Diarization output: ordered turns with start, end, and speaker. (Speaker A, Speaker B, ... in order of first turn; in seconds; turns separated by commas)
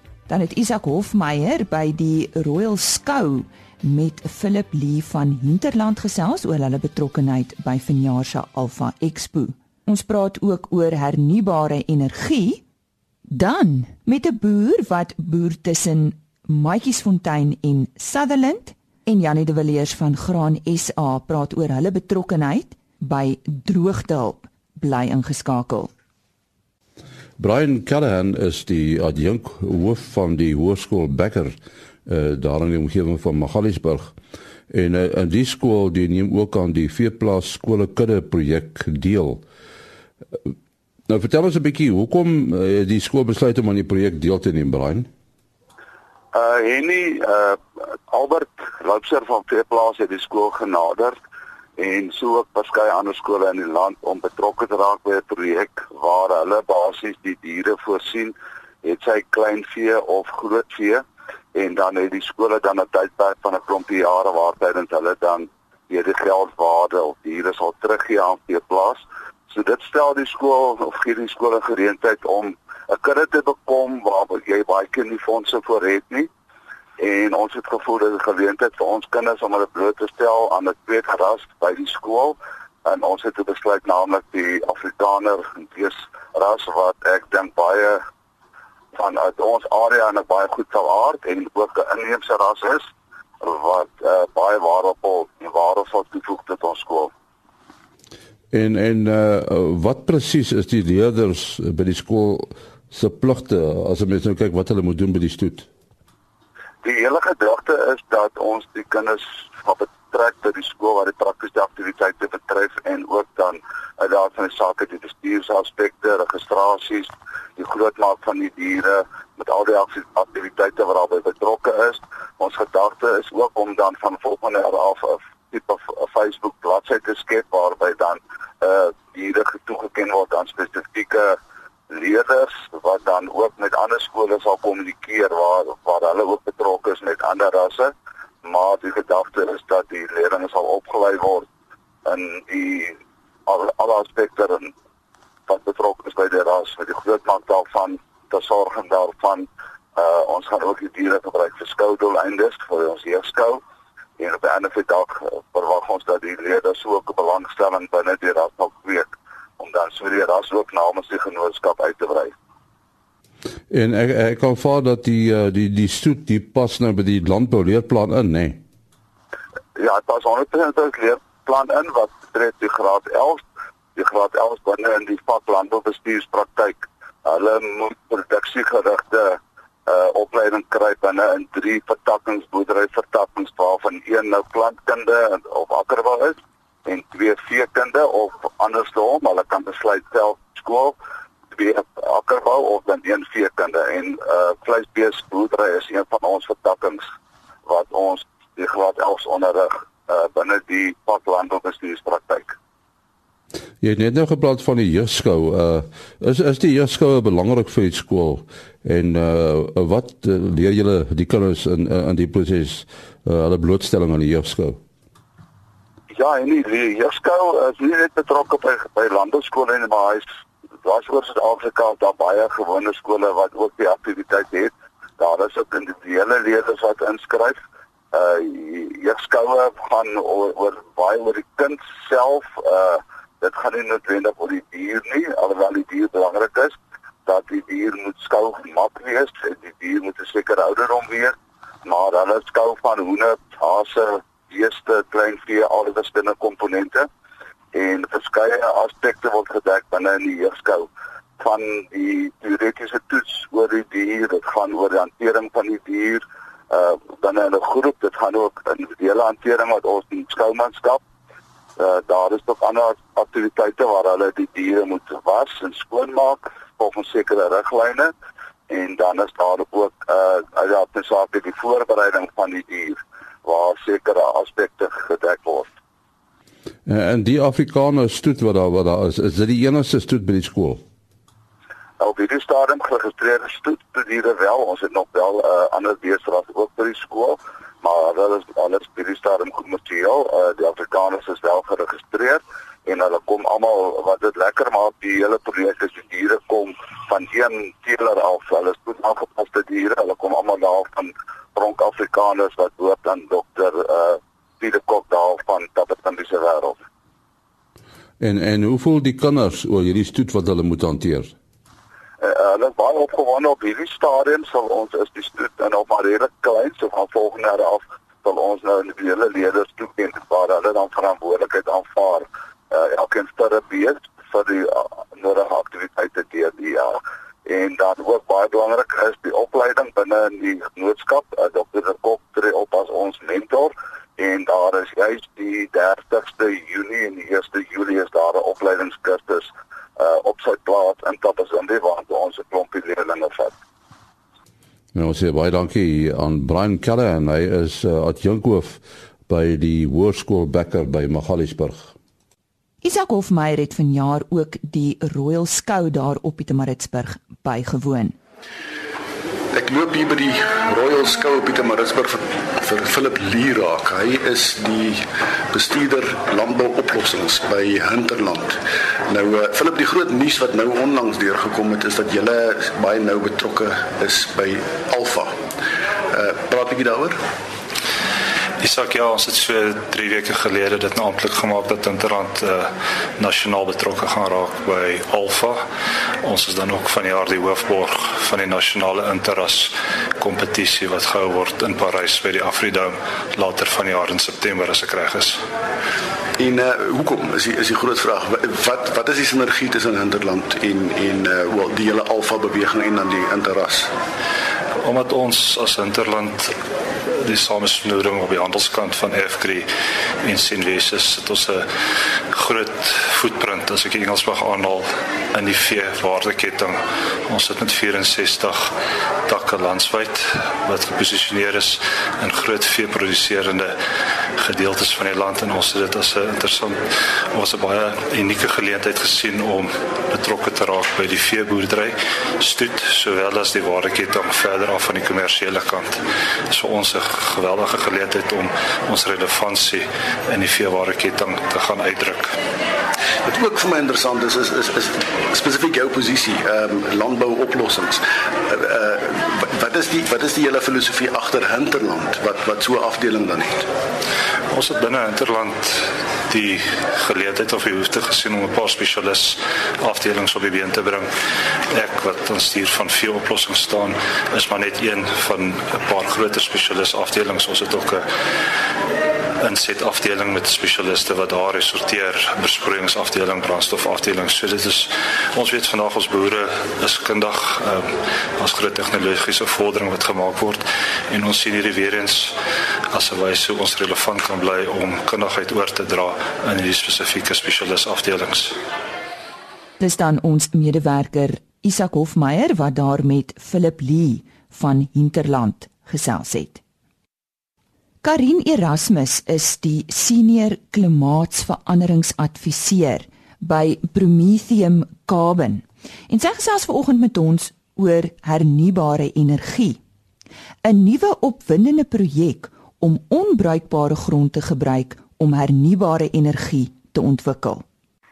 Speaker A: 0.3-12.6, Speaker A: 13.3-25.9, Speaker B: 27.4-34.1, Speaker B: 34.7-39.4, Speaker B: 41.1-45.1, Speaker C: 46.3-51.2, Speaker C: 51.8-61.0, Speaker C: 61.5-76.3, Speaker C: 77.0-88.0, Speaker C: 89.0-92.9, Speaker C: 93.4-97.1, Speaker B: 98.5-105.7, Speaker C: 106.8-131.4, Speaker C: 131.9-137.9, Speaker C: 138.4-141.5, Speaker C: 142.1-143.0, Speaker C: 143.5-144.7, Speaker C: 145.5-153.6, Speaker C: 154.2-162.3, Speaker B: 163.7-168.6, Speaker C: 169.8-173.4, Speaker C: 173.9-191.0, Speaker C: 191.5-197.0, Speaker C: 197.7-202.6, Speaker B: 203.8-214.8, Speaker C: 216.1-220.3, Speaker C: 220.8-227.6, Speaker C: 228.1-247.1, Speaker C: 247.7-261.0, Speaker C: 261.8-268.1, Speaker C: 268.7-275.7, Speaker B: 276.9-280.8, Speaker C: 282.0-306.8, Speaker B: 308.2-311.3, Speaker C: 312.2-343.5, Speaker B: 344.9-351.9, Speaker A: 352.8-358.2, Speaker D: 359.5-375.4, Speaker D: 376.1-377.2, Speaker E: 378.6-385.6, Speaker E: 386.2-395.4, Speaker D: 396.4-403.9, Speaker E: 404.8-406.6, Speaker E: 407.2-409.7, Speaker E: 410.2-411.7, Speaker E: 412.3-418.7, Speaker E: 419.3-423.8, Speaker E: 424.4-442.3, Speaker D: 443.2-453.7, Speaker E: 454.5-461.1, Speaker E: 461.7-468.1, Speaker E: 469.4-482.4, Speaker E: 482.9-488.6, Speaker A: 489.8-496.6, Speaker A: 498.0-509.8, Speaker A: 510.6-517.6